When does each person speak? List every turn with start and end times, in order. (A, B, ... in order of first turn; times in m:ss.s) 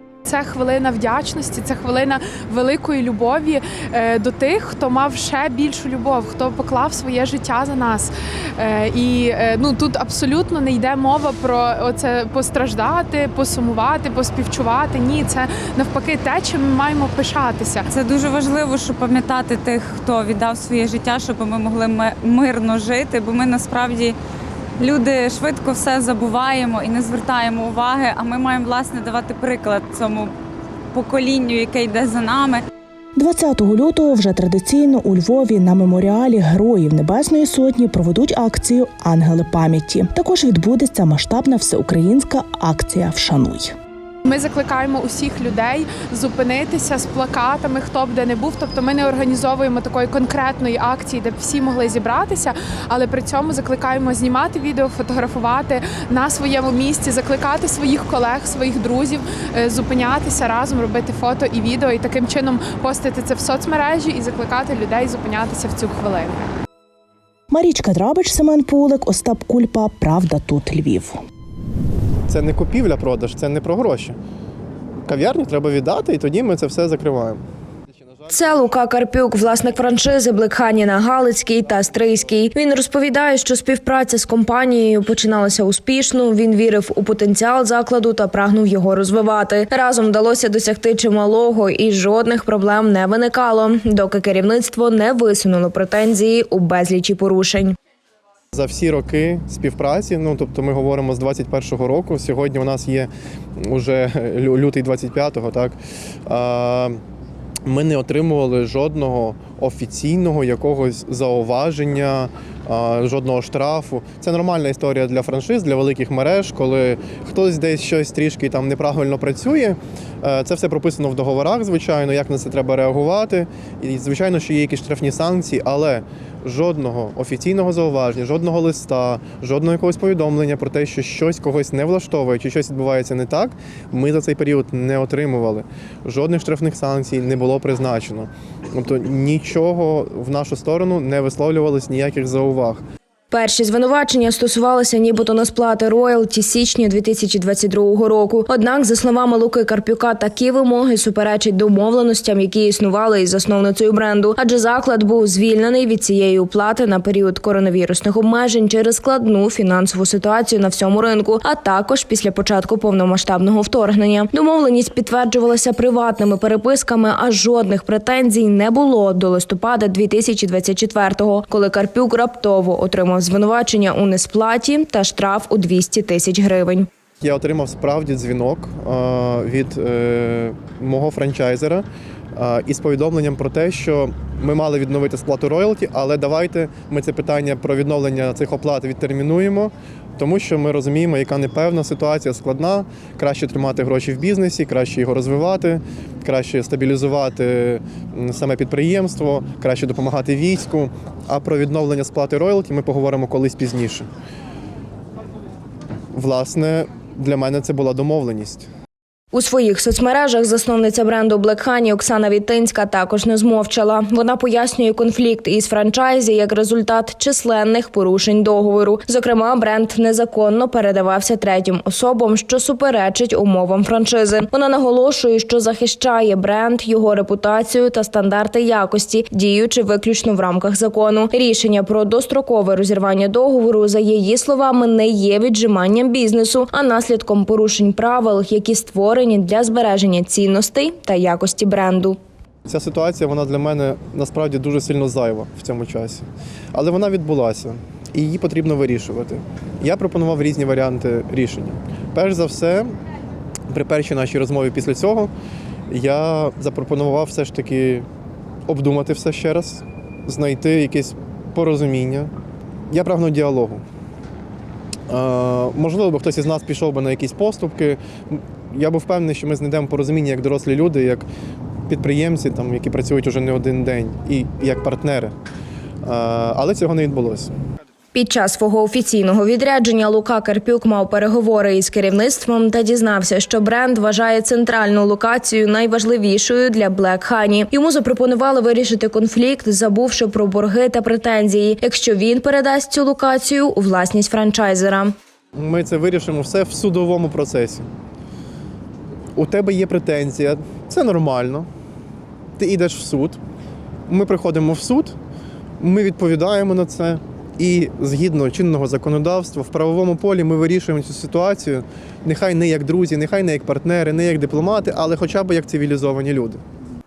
0:00.2-0:17.8 A
0:18.0-0:24.1 B
0:24.8-0:30.3 B
0:30.9-0:32.6 B
0:33.2-0:43.7 C
0:44.2-1:06.5 A
1:07.5-1:11.2 C
1:12.3-1:14.2 D
1:15.0-1:17.4 D
1:18.2-1:18.7 D
1:18.3-1:37.8 E
1:38.5-1:43.1 D
1:43.6-1:45.8 D
1:46.3-1:47.0 D
1:47.7-2:22.8 D
2:23.3-2:56.9 E
2:57.2-3:01.8 D
3:02.4-3:24.0 D
3:26.1-3:28.7 D
3:29.3-4:02.2 E
4:02.6-4:12.9 D
4:13.7-4:15.3 D
4:15.9-4:18.0 D
4:18.7-4:22.3 D
4:22.9-4:23.8 D
4:25.1-4:31.2 D
4:31.9-4:35.3 D
4:36.0-4:37.5 D
4:38.1-4:55.1 E
4:55.6-4:57.8 D
4:59.4-5:01.7 D
5:02.6-5:03.4 D
5:04.1-5:05.1 D
5:05.8-5:16.6 D